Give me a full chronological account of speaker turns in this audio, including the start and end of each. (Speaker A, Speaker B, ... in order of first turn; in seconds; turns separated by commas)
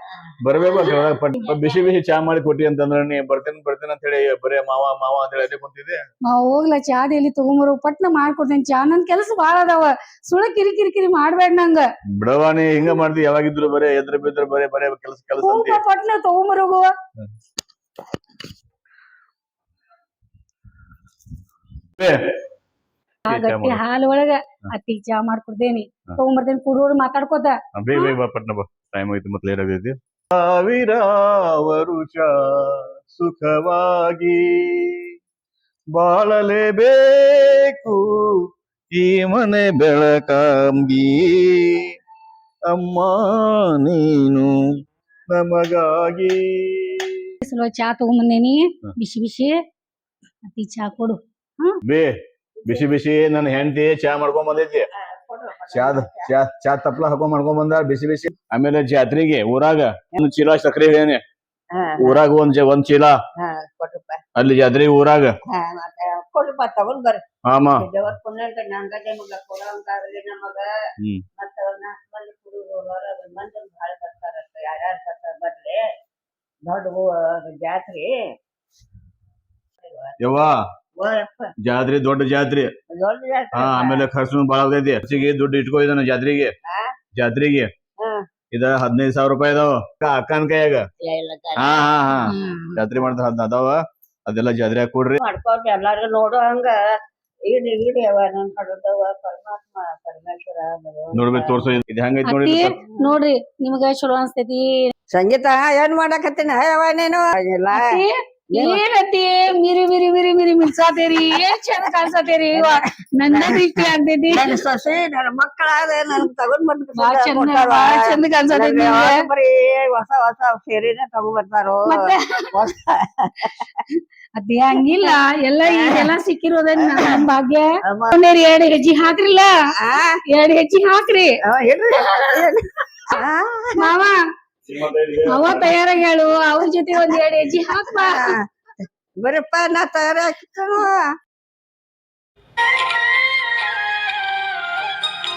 Speaker A: 0.4-6.0, Speaker B: 0.7-1.1, Speaker C: 6.2-11.8, Speaker A: 12.2-15.8, Speaker C: 15.4-16.9, Speaker C: 23.3-28.1, Speaker A: 23.3-23.8, Speaker A: 27.7-35.1, Speaker A: 35.9-38.4, Speaker A: 38.9-41.9, Speaker A: 42.7-44.7, Speaker A: 45.3-47.3, Speaker C: 47.4-49.6, Speaker C: 50.5-51.8, Speaker A: 51.8-54.9, Speaker B: 55.0-56.2, Speaker A: 55.7-61.2, Speaker B: 61.7-62.2, Speaker A: 62.0-63.1, Speaker B: 63.4-64.2, Speaker A: 64.3-65.3, Speaker B: 65.5-67.2, Speaker A: 67.5-67.9, Speaker B: 67.8-70.7, Speaker B: 71.4-75.8, Speaker B: 76.7-78.1, Speaker B: 79.8-80.2, Speaker A: 80.2-80.6, Speaker B: 81.0-81.5, Speaker A: 81.6-82.7, Speaker B: 82.9-84.1, Speaker A: 83.5-86.5, Speaker B: 86.7-86.9, Speaker A: 87.2-87.7, Speaker A: 88.5-90.9, Speaker B: 91.0-92.1, Speaker A: 91.6-95.2, Speaker C: 92.2-92.8, Speaker B: 95.2-96.8, Speaker B: 97.5-101.8, Speaker A: 101.1-102.8, Speaker C: 102.2-104.9, Speaker B: 105.1-107.9, Speaker C: 107.7-114.5, Speaker B: 108.5-108.8, Speaker B: 111.8-123.7, Speaker C: 116.9-119.2, Speaker C: 121.9-122.5, Speaker C: 124.4-129.5, Speaker B: 125.6-126.1, Speaker B: 126.8-127.2, Speaker B: 127.9-128.2, Speaker B: 129.8-130.2, Speaker C: 130.3-131.3, Speaker B: 131.4-133.9, Speaker C: 133.8-134.2, Speaker A: 134.7-135.7, Speaker C: 135.3-138.3, Speaker B: 137.7-138.4, Speaker B: 139.2-141.0